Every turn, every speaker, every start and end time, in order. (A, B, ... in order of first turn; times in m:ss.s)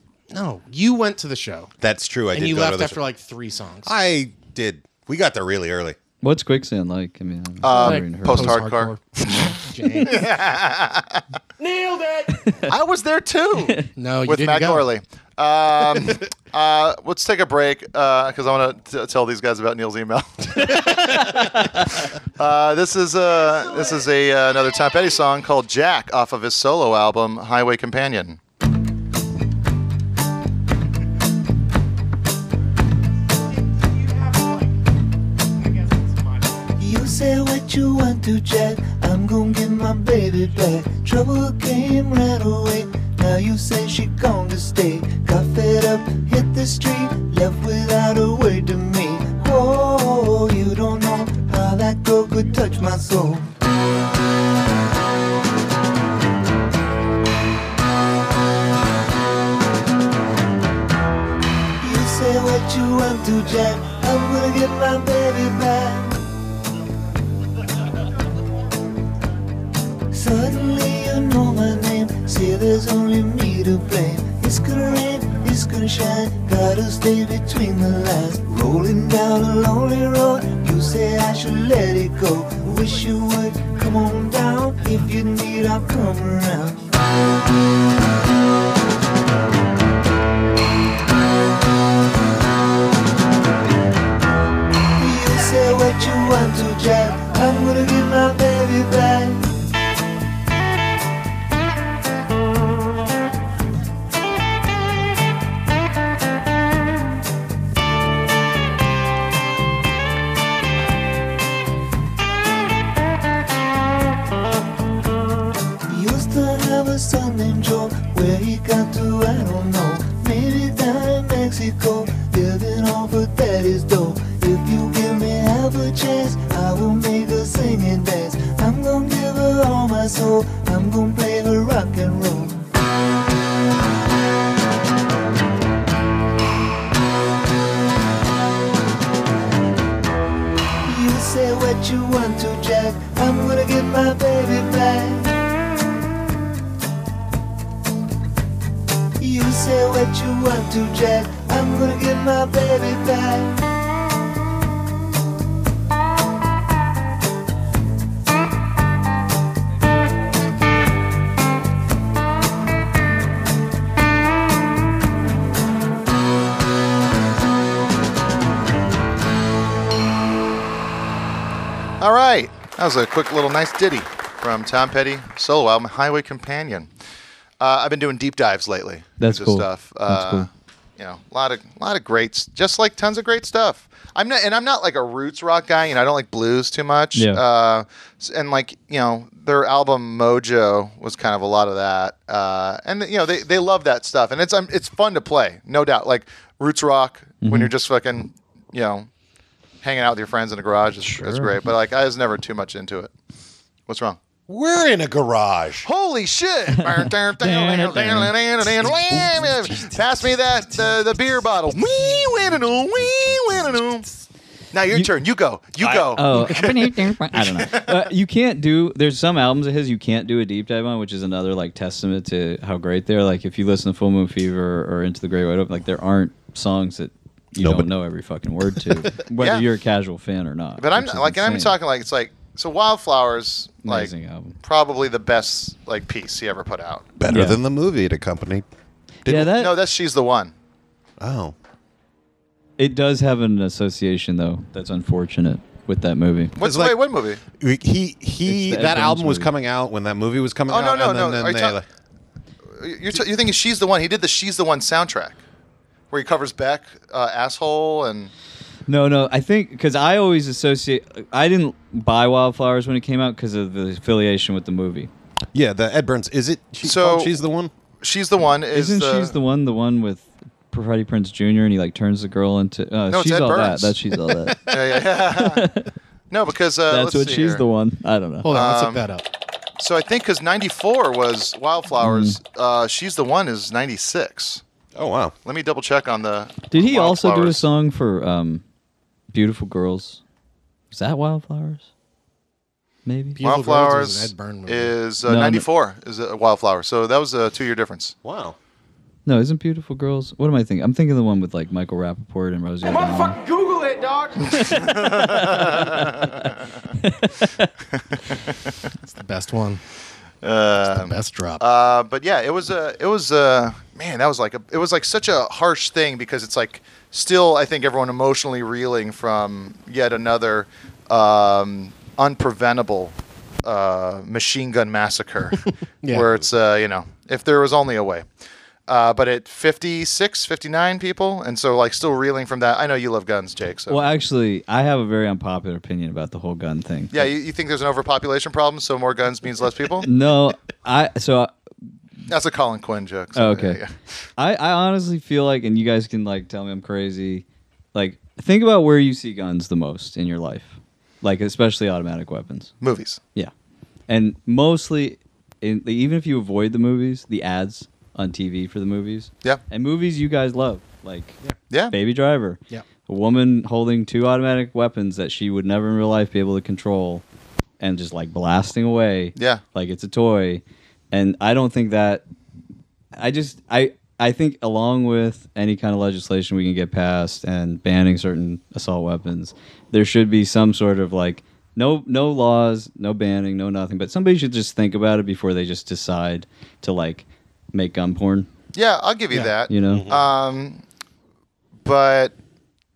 0:00.3-0:01.7 A
0:01.8-0:03.0 B
0:02.3-0:03.9 A
0:03.8-0:06.0 B
0:06.2-0:08.6 C
0:07.6-0:09.0 D
0:07.7-0:10.3 A
0:10.0-0:11.2 D
0:11.6-0:12.0 E
0:12.3-0:12.7 C
0:12.7-0:21.7 D
0:13.6-0:13.9 C
0:14.0-0:14.8 A
0:20.7-0:21.9 C
0:22.4-0:28.4 D
0:33.7-0:34.8 A
0:35.6-0:36.6 A
0:36.8-0:53.5 F
1:01.8-1:06.2 F
1:10.1-1:26.9 F
1:35.0-1:39.6 F
1:55.9-2:12.7 F
2:20.8-2:25.4 F
2:29.2-2:33.6 F
2:52.0-2:56.9 D
2:57.6-3:19.1 D
2:59.2-3:00.5 C
3:07.1-3:07.4 C
3:17.4-3:17.7 C
3:19.8-3:23.1 D
3:21.0-3:21.5 C
3:23.9-3:24.2 D
3:24.5-3:25.9 B
3:25.8-3:34.0 D
3:26.8-3:28.3 C
3:28.8-3:30.7 B
3:31.8-3:33.6 B
3:34.7-3:37.9 D
3:36.1-3:51.7 C
3:47.6-3:47.9 B
3:49.4-3:49.7 D
3:50.8-3:54.1 D
3:53.8-3:54.6 C
3:54.6-3:57.1 D
3:57.2-3:58.6 B
3:57.3-3:57.6 C
3:59.2-3:59.5 B
3:59.2-3:59.7 C
3:59.5-4:00.5 D
4:01.2-4:01.5 B
4:02.8-4:06.5 C
4:06.6-4:07.4 D
4:06.6-4:07.0 B
4:07.6-4:11.8 B
4:08.4-4:09.5 C
4:10.7-4:11.8 D
4:12.8-4:15.4 D
4:16.1-4:18.3 D
4:18.9-4:25.1 C
4:25.5-4:27.7 B
4:26.8-4:27.3 D
4:28.0-4:29.3 D
4:28.7-4:35.9 C
4:33.1-4:33.9 D
4:34.6-4:35.6 D
4:36.3-4:37.6 D
4:36.9-4:38.5 C
4:38.4-4:39.2 A
4:38.5-4:39.0 D
4:39.8-4:44.6 D
4:42.0-4:42.4 C
4:44.9-4:45.3 B
4:45.4-4:47.6 D
4:46.7-4:48.6 C
4:49.3-4:50.2 C
4:50.9-4:51.8 C
4:53.0-4:53.4 C
4:53.4-4:54.9 A
4:53.4-4:58.1 D
4:55.2-4:55.6 C
4:58.2-4:58.6 B
4:59.2-5:03.4 C
5:02.8-5:04.8 E
5:04.4-5:07.7 C
5:04.8-5:06.3 D
5:08.1-5:08.5 D
5:09.0-5:09.8 A
5:10.4-5:28.2 D
5:10.8-5:11.6 A
5:28.9-5:34.1 D
5:33.9-5:37.3 C
5:37.1-5:40.1 D
5:40.0-5:41.5 C
5:42.3-5:43.9 D
5:43.3-5:43.8 C
5:44.4-5:52.7 C
5:52.8-5:53.2 D
5:54.1-6:01.4 C
6:01.7-6:01.9 D
6:01.9-6:07.2 C
6:07.8-6:12.2 C
6:09.4-6:09.6 D
6:13.2-6:28.5 C
6:28.7-6:30.8 D
6:29.7-6:30.0 C
6:29.9-6:30.3 B
6:31.8-6:32.3 D